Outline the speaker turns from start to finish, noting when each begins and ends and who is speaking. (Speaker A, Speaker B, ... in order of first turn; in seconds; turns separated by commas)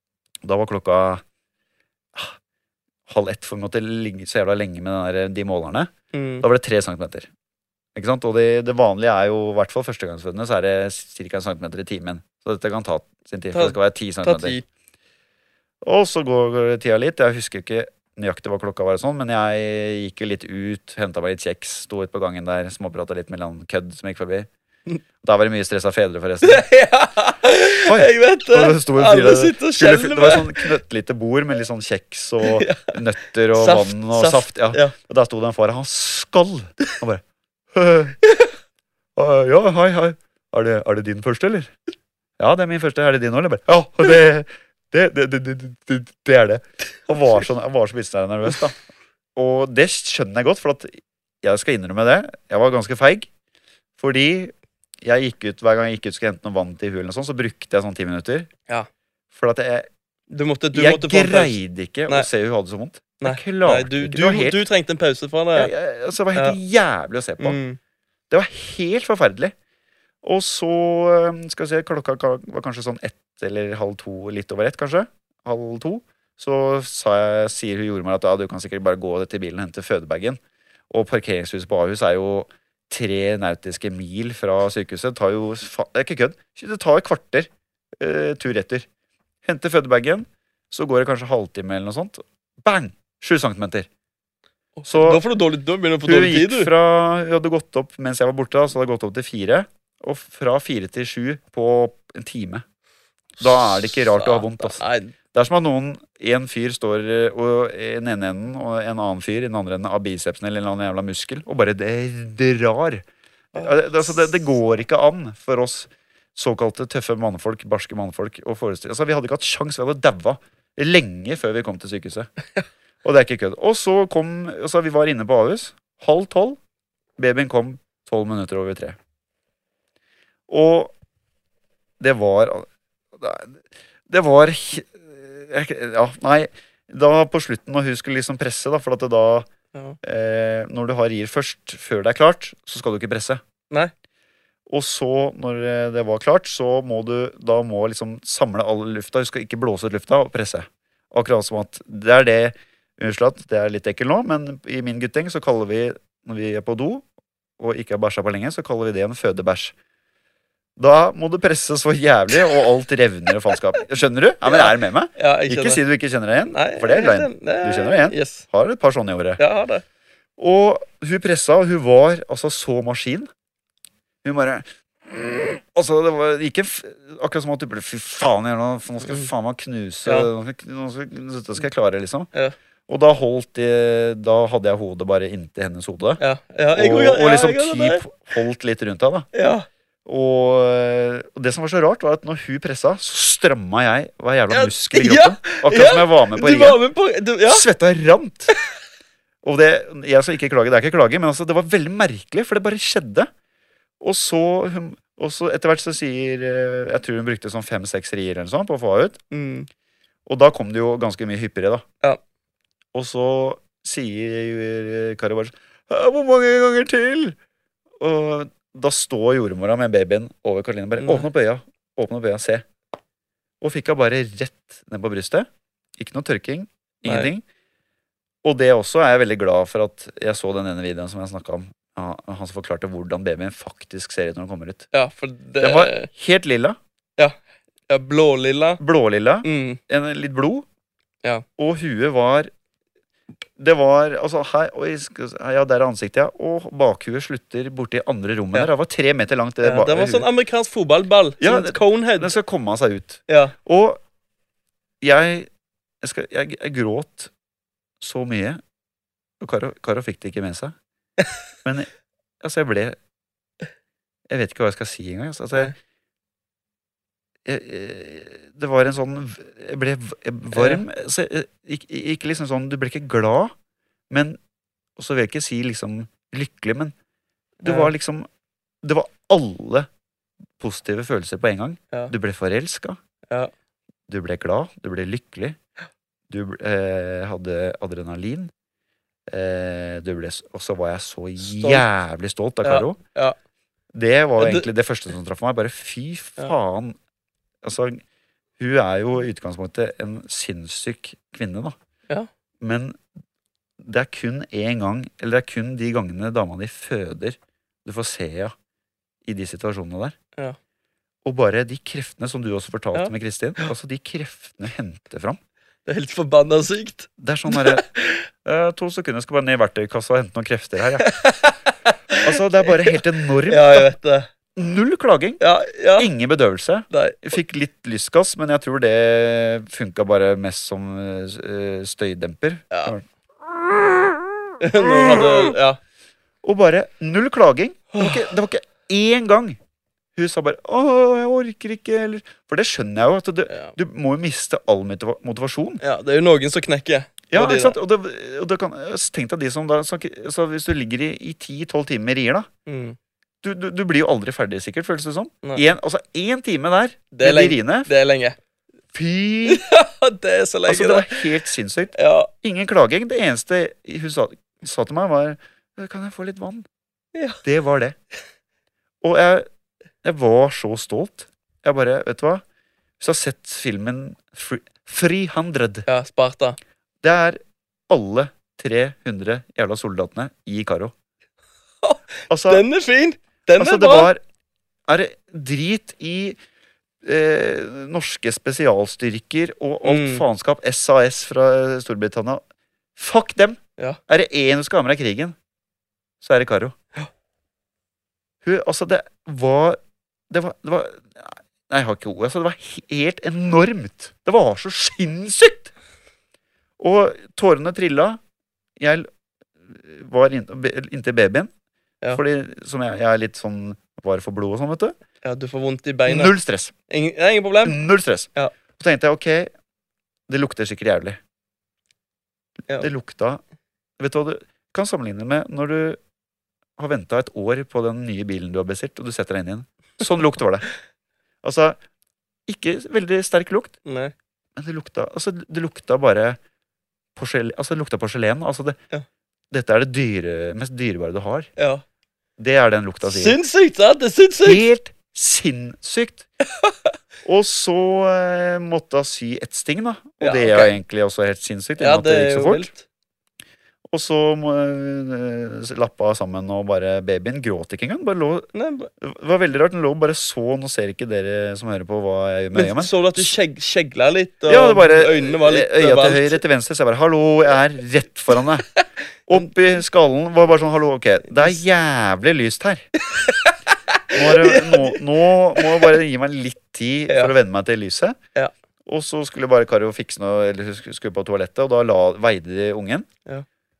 Speaker A: 0.4-1.2, Speaker A: 3.1-7.3, Speaker B: 6.1-6.4, Speaker A: 7.9-14.6, Speaker B: 13.5-14.6, Speaker A: 15.8-24.5, Speaker A: 25.2-26.7, Speaker B: 26.4-30.7, Speaker A: 27.8-38.2, Speaker B: 32.4-32.9, Speaker B: 33.5-34.9, Speaker B: 38.2-38.5, Speaker A: 39.1-41.7, Speaker A: 42.4-48.8, Speaker A: 49.3-53.3, Speaker A: 54.0-58.5, Speaker A: 59.3-59.9, Speaker B: 60.3-61.6, Speaker A: 60.7-64.6, Speaker B: 63.2-65.7, Speaker A: 65.5-67.6, Speaker B: 67.4-67.8, Speaker A: 68.3-69.5, Speaker A: 70.2-80.4, Speaker A: 80.9-88.8, Speaker A: 89.4-93.9, Speaker B: 94.8-96.7, Speaker A: 94.9-95.2, Speaker A: 96.0-102.6, Speaker A: 103.4-104.8, Speaker B: 103.4-105.1, Speaker A: 105.3-122.3, Speaker B: 113.5-114.2, Speaker A: 123.0-126.6, Speaker A: 127.2-129.0, Speaker A: 130.5-130.9, Speaker A: 132.0-139.5, Speaker A: 140.0-143.4, Speaker A: 144.7-157.0, Speaker A: 157.6-159.7, Speaker A: 160.8-169.4, Speaker B: 164.4-165.8, Speaker B: 166.5-168.4, Speaker B: 169.4-169.8, Speaker A: 170.4-173.3, Speaker A: 174.2-182.3, Speaker B: 180.0-180.3, Speaker A: 182.9-186.2, Speaker B: 186.2-188.1, Speaker A: 186.7-189.3, Speaker B: 189.3-189.7, Speaker A: 190.1-196.8, Speaker B: 194.5-197.7, Speaker A: 197.5-198.5, Speaker A: 199.4-203.3, Speaker A: 204.0-209.2, Speaker B: 209.3-209.7, Speaker A: 210.2-211.8, Speaker A: 212.9-217.4, Speaker A: 218.0-222.7, Speaker B: 221.0-221.2, Speaker A: 223.6-227.4, Speaker B: 227.1-227.3, Speaker A: 228.4-234.8, Speaker B: 234.9-236.1, Speaker A: 235.6-236.8, Speaker B: 237.9-238.8, Speaker A: 238.8-240.7, Speaker B: 239.4-239.8, Speaker A: 241.6-242.5, Speaker A: 243.6-250.2, Speaker B: 249.6-252.3, Speaker A: 251.4-254.0, Speaker B: 253.3-253.5, Speaker A: 255.0-255.5, Speaker A: 256.0-257.3, Speaker A: 258.0-258.6, Speaker A: 259.4-260.7, Speaker A: 261.6-261.9, Speaker A: 262.4-263.0, Speaker A: 264.3-265.7, Speaker A: 267.4-273.5, Speaker B: 270.5-270.8, Speaker A: 274.1-274.4, Speaker A: 275.0-276.9, Speaker B: 277.6-277.9, Speaker A: 277.6-278.3, Speaker A: 278.8-279.9, Speaker A: 280.6-283.0, Speaker A: 284.1-285.6, Speaker A: 286.3-288.5, Speaker A: 289.3-293.0, Speaker B: 291.5-291.8, Speaker B: 292.6-293.4, Speaker A: 293.9-296.9, Speaker B: 294.4-294.7, Speaker A: 297.6-298.0, Speaker A: 298.6-301.7, Speaker A: 302.6-303.0, Speaker A: 303.8-308.5, Speaker A: 309.2-310.1, Speaker A: 311.2-315.4, Speaker B: 315.9-318.3, Speaker A: 317.2-317.8, Speaker A: 318.4-321.1, Speaker B: 321.0-322.9, Speaker A: 322.2-323.9, Speaker B: 323.4-324.3, Speaker A: 324.6-325.4, Speaker B: 325.4-326.1, Speaker A: 326.0-335.5, Speaker B: 326.9-327.3, Speaker B: 334.6-335.8, Speaker A: 336.4-339.6, Speaker B: 337.9-338.3, Speaker A: 340.1-345.8, Speaker B: 343.5-343.7, Speaker B: 345.8-347.8, Speaker A: 347.3-352.5, Speaker B: 352.6-353.0, Speaker A: 353.4-357.9, Speaker B: 357.1-358.4, Speaker A: 358.9-359.6, Speaker B: 359.4-361.3, Speaker A: 360.7-366.6, Speaker B: 361.9-362.3, Speaker A: 367.4-367.9, Speaker A: 369.0-369.5, Speaker A: 370.0-372.4, Speaker A: 373.0-375.9, Speaker B: 375.9-376.6, Speaker A: 377.0-380.9, Speaker B: 381.8-384.1, Speaker A: 382.3-382.6, Speaker A: 383.6-384.2, Speaker A: 384.9-386.4, Speaker A: 387.0-392.4, Speaker B: 389.8-390.2, Speaker A: 393.0-395.3, Speaker A: 396.2-396.7, Speaker A: 398.4-399.8, Speaker A: 400.3-405.7, Speaker A: 406.8-408.2, Speaker A: 408.8-409.1, Speaker A: 409.6-411.5, Speaker A: 412.1-415.0, Speaker B: 415.2-416.3, Speaker A: 416.1-416.7, Speaker B: 416.9-417.8, Speaker A: 417.6-419.5, Speaker A: 420.3-421.2, Speaker A: 422.8-423.4, Speaker A: 424.0-426.0, Speaker A: 426.8-430.7, Speaker A: 431.4-431.8, Speaker A: 432.5-433.7, Speaker B: 433.8-434.1, Speaker A: 434.6-436.4, Speaker A: 437.1-438.8, Speaker A: 439.5-441.5, Speaker B: 441.6-441.8, Speaker A: 442.4-443.4, Speaker B: 443.0-444.6, Speaker A: 444.4-446.2, Speaker B: 446.4-446.9, Speaker A: 447.2-452.7, Speaker B: 450.2-450.7, Speaker B: 451.8-452.8, Speaker A: 453.9-458.5, Speaker B: 458.5-458.9, Speaker A: 459.0-463.3, Speaker B: 462.5-466.4, Speaker A: 464.4-468.7, Speaker A: 469.3-472.9, Speaker B: 473.1-475.0, Speaker A: 474.1-478.2, Speaker B: 475.6-475.9, Speaker A: 478.9-483.1